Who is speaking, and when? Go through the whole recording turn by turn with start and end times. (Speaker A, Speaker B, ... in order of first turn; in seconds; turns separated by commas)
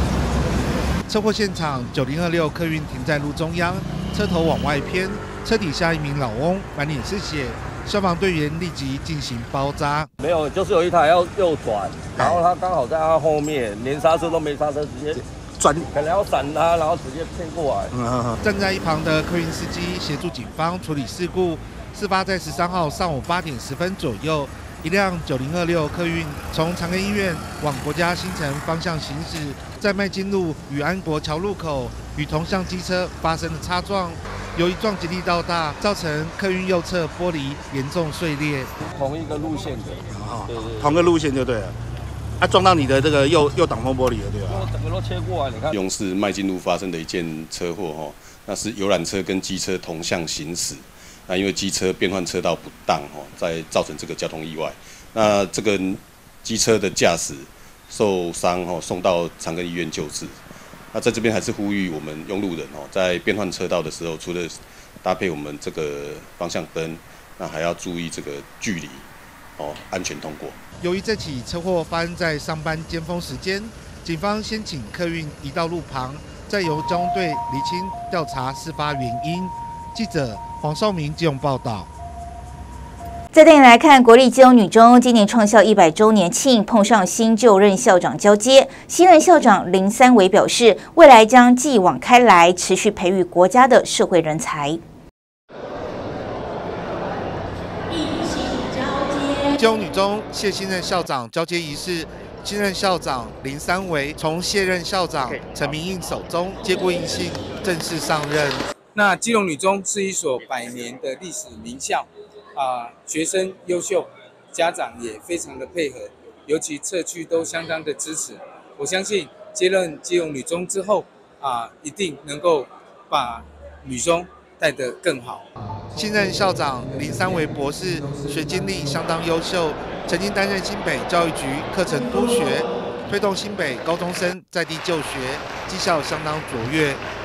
Speaker A: 1.1-10.1, Speaker B: 10.2-15.2, Speaker B: 15.9-17.9, Speaker A: 18.4-38.7, Speaker B: 39.0-41.0, Speaker B: 44.5-45.7, Speaker C: 45.7-60.4, Speaker C: 60.9-69.1, Speaker C: 69.6-70.6, Speaker A: 70.8-81.9, Speaker D: 83.3-94.8, Speaker A: 99.5-108.6, Speaker E: 109.0-125.5, Speaker A: 126.0-137.0